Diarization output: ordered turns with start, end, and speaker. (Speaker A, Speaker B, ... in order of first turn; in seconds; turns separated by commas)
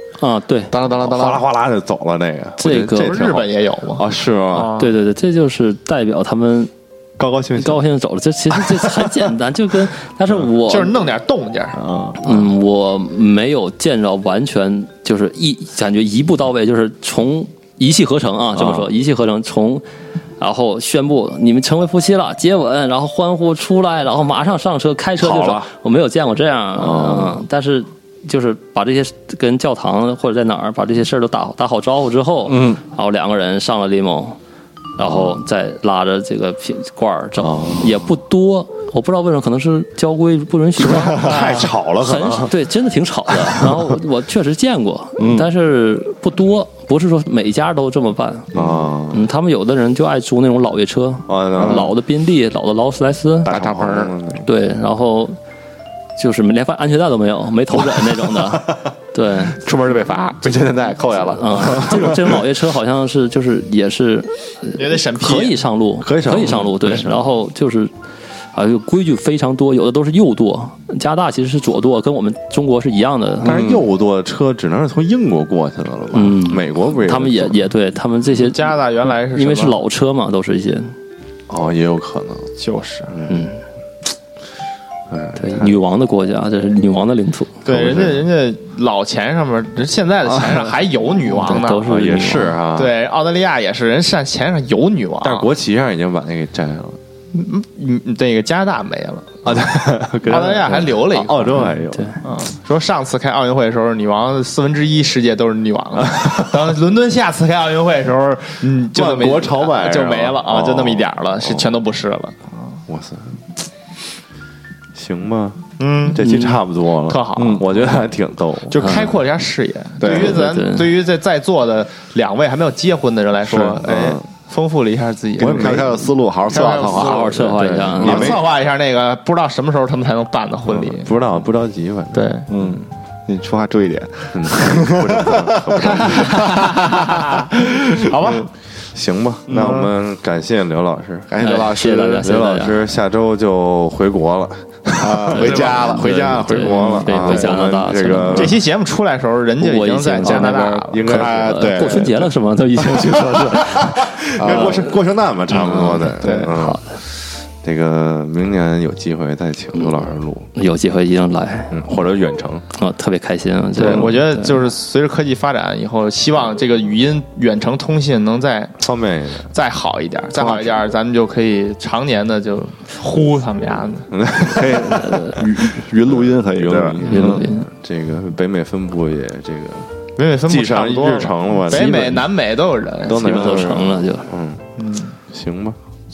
Speaker A: 0.2-0.7, Speaker B: 0.7-1.4, Speaker C: 0.9-4.7, Speaker A: 2.6-3.2, Speaker D: 3.0-4.9, Speaker A: 4.7-6.7, Speaker C: 7.2-7.8, Speaker A: 7.6-10.9, Speaker C: 8.5-9.2, Speaker D: 10.6-11.8, Speaker C: 11.7-12.5, Speaker A: 12.2-19.8, Speaker C: 18.5-18.9, Speaker A: 20.4-34.4, Speaker C: 25.2-25.7, Speaker C: 26.8-27.4, Speaker B: 32.5-32.8, Speaker A: 35.0-53.5, Speaker C: 35.0-35.4, Speaker C: 37.4-38.1, Speaker C: 40.8-42.5, Speaker C: 43.5-43.8, Speaker B: 45.2-45.5, Speaker C: 48.5-49.2, Speaker C: 51.3-52.0, Speaker C: 53.4-54.5, Speaker B: 53.5-54.1, Speaker A: 54.4-55.4, Speaker A: 56.2-59.6, Speaker B: 59.6-62.3, Speaker A: 61.3-67.9, Speaker D: 64.8-65.6, Speaker C: 66.0-67.1, Speaker A: 68.5-73.5, Speaker C: 73.4-77.7, Speaker B: 73.4-73.8, Speaker A: 76.1-80.9, Speaker D: 78.3-79.8, Speaker C: 81.5-82.5, Speaker D: 82.6-83.1, Speaker C: 83.1-83.5, Speaker A: 83.2-83.6, Speaker C: 85.1-85.8, Speaker A: 85.3-87.6, Speaker D: 87.6-91.9, Speaker C: 87.7-88.3, Speaker C: 90.2-90.8, Speaker A: 91.4-92.5, Speaker C: 91.4-92.9, Speaker D: 92.7-95.5, Speaker C: 95.2-97.0, Speaker D: 97.3-101.6, Speaker C: 99.4-102.2, Speaker A: 101.5-102.2, Speaker D: 102.2-112.7, Speaker C: 106.0-106.4, Speaker C: 108.9-111.8, Speaker C: 112.9-113.4, Speaker C: 114.9-119.0, Speaker D: 115.8-116.5, Speaker A: 116.2-116.6, Speaker D: 117.0-118.0, Speaker B: 117.3-117.7, Speaker D: 118.7-127.5, Speaker A: 118.8-119.1, Speaker B: 120.0-120.4, Speaker A: 120.1-120.9, Speaker B: 123.4-123.8, Speaker C: 123.8-124.2, Speaker B: 125.4-127.3, Speaker C: 125.4-125.9, Speaker A: 126.8-128.3, Speaker C: 127.2-128.4, Speaker B: 128.0-128.3, Speaker D: 128.0-131.1, Speaker C: 130.7-132.8, Speaker D: 132.1-132.5, Speaker B: 132.5-137.2, Speaker C: 134.3-136.4, Speaker D: 135.8-138.5, Speaker B: 137.7-138.4, Speaker C: 138.9-141.3, Speaker B: 139.5-139.9, Speaker B: 141.3-142.3, Speaker A: 141.4-142.8, Speaker C: 142.2-148.6, Speaker B: 145.0-147.6, Speaker A: 145.3-148.6, Speaker D: 148.3-151.5, Speaker A: 149.6-154.8, Speaker C: 150.2-152.1, Speaker B: 151.1-152.2, Speaker C: 153.0-160.5, Speaker B: 154.4-154.8, Speaker A: 155.5-156.9, Speaker D: 156.2-156.5, Speaker A: 159.8-160.0, Speaker A: 160.5-161.8, Speaker C: 161.7-162.6, Speaker A: 162.7-164.6, Speaker D: 163.8-168.8, Speaker C: 168.8-169.5, Speaker D: 169.5-174.1, Speaker B: 170.4-170.7, Speaker C: 174.1-179.9, Speaker B: 174.4-177.5, Speaker A: 177.0-177.7, Speaker D: 180.2-183.6, Speaker C: 180.4-182.3, Speaker A: 181.7-182.2, Speaker C: 183.1-184.7, Speaker A: 183.1-184.3, Speaker D: 184.8-185.2, Speaker C: 185.3-185.8